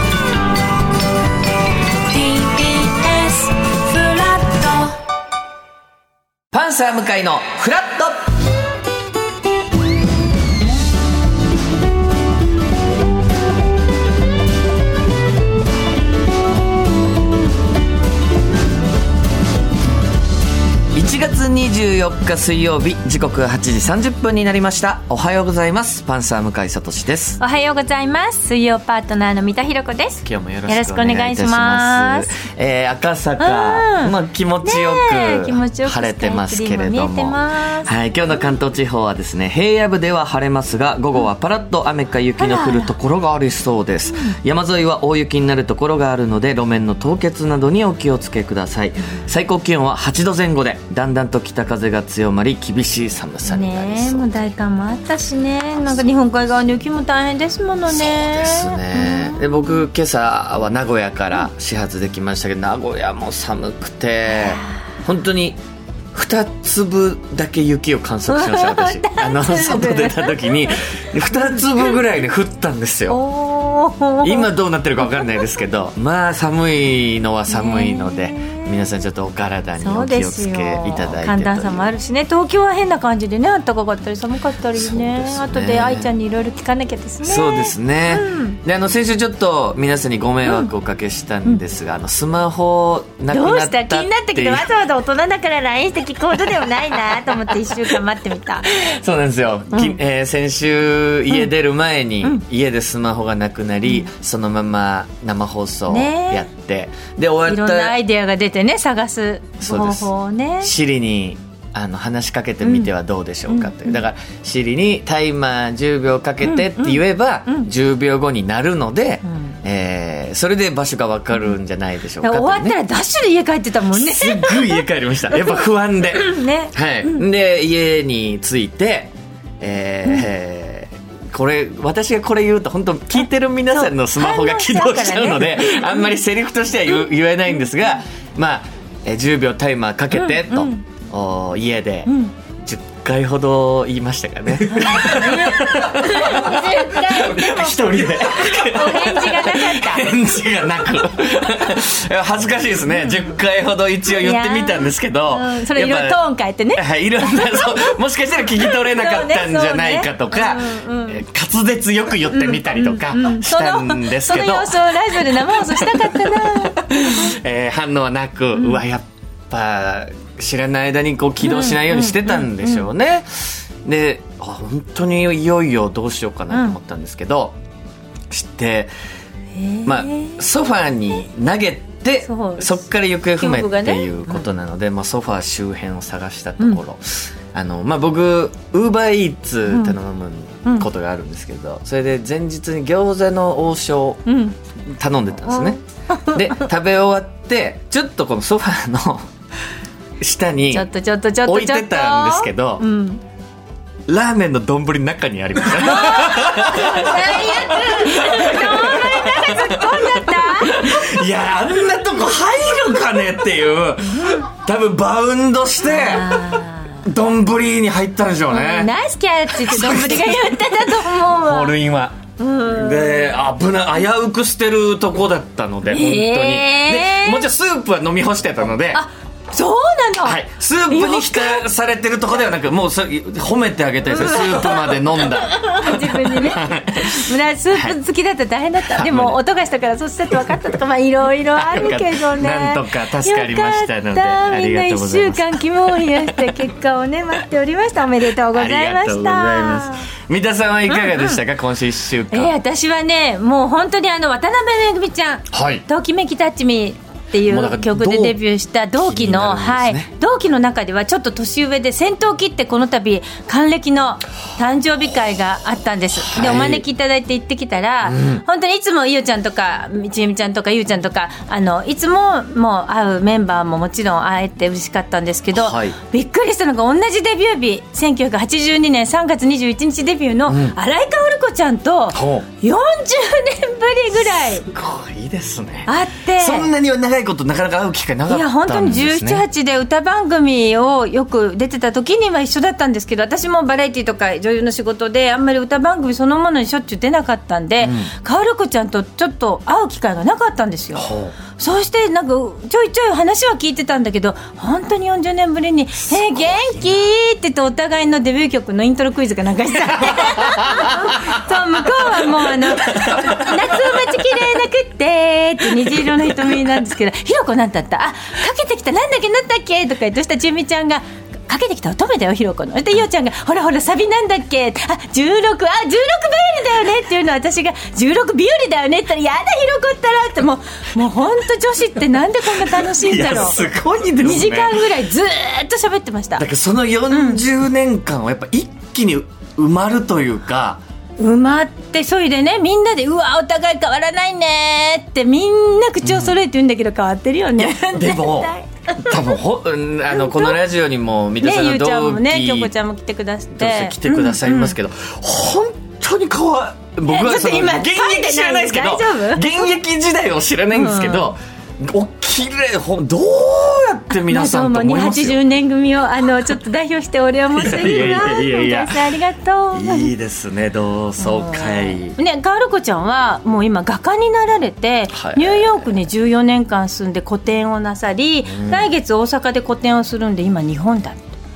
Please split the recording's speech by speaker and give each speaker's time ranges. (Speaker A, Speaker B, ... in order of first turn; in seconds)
Speaker A: 2.1-4.9, 27.4-32.4, 33.4-37.9, 42.4-42.9, 44.1-44.4, 53.5-59.8, 64.3-64.7, 68.3-70.8, 73.1-74.5, 77.5-78.8, 79.8-88.6, 90.5-90.7, 93.3-98.7, 105.9-106.5, 107.5-110.7, 112.6-112.9, 113.5-114.0, 116.4-117.7, 122.2-127.2, 133.7-136.1, 140.1-140.8, 142.1-142.3, 144.7-147.8, 148.4-150.1, 154.1-157.9, 158.5-161.2, 162.3-167.3, 168.5-168.8, 171.4-172.8, 176.5-176.8, 179.5-180.4, 182.3-182.8, 183.4-184.5, 189.7-190.0, 194.2-194.6, 195.5-196.6, 200.7-203.2, 205.8-210.9, 215.8-217.1, 218.5-221.7, 222.4-223.2, 225.9-227.4, 228.9-231.6, 234.1-250.1, 250.9-251.4, 252.3-284.7, 285.9-286.7, 288.3-333.6, 334.2-336.4, 337.1-337.4, 341.2-349.3, 350.1-350.6, 351.4-354.8, 357.1-359.5, 360.7-361.3, 364.1-370.1, 371.2-381.3
Speaker B: 6.5-8.3, 20.9-27.4, 30.2-54.5, 57.9-65.6, 66.1-73.2, 74.2-81.9, 84.7-86.1, 87.2-94.7, 98.7-108.0, 109.6-110.1, 110.6-122.8, 123.9-142.1, 142.6-156.2, 156.8-177.6, 178.3-178.9, 179.8-194.2, 194.9-199.3, 200.2-200.8, 201.4-202.8, 204.1-218.9, 219.5-229.0, 230.2-238.0, 238.9-239.4, 241.5-246.5, 248.5-252.5, 255.5-255.8, 257.4-258.4, 259.0-260.1, 266.3-266.8, 268.0-268.4, 275.5-276.0, 280.5-280.8, 282.1-282.4, 284.6-289.4, 297.8-298.1, 300.9-301.3, 306.0-306.9, 309.9-311.0, 312.6-313.7, 332.6-334.8, 336.4-340.8, 346.0-346.3, 347.6-352.7, 353.5-365.4, 367.5-369.2, 369.7-372.2, 375.1-375.9, 378.4-378.9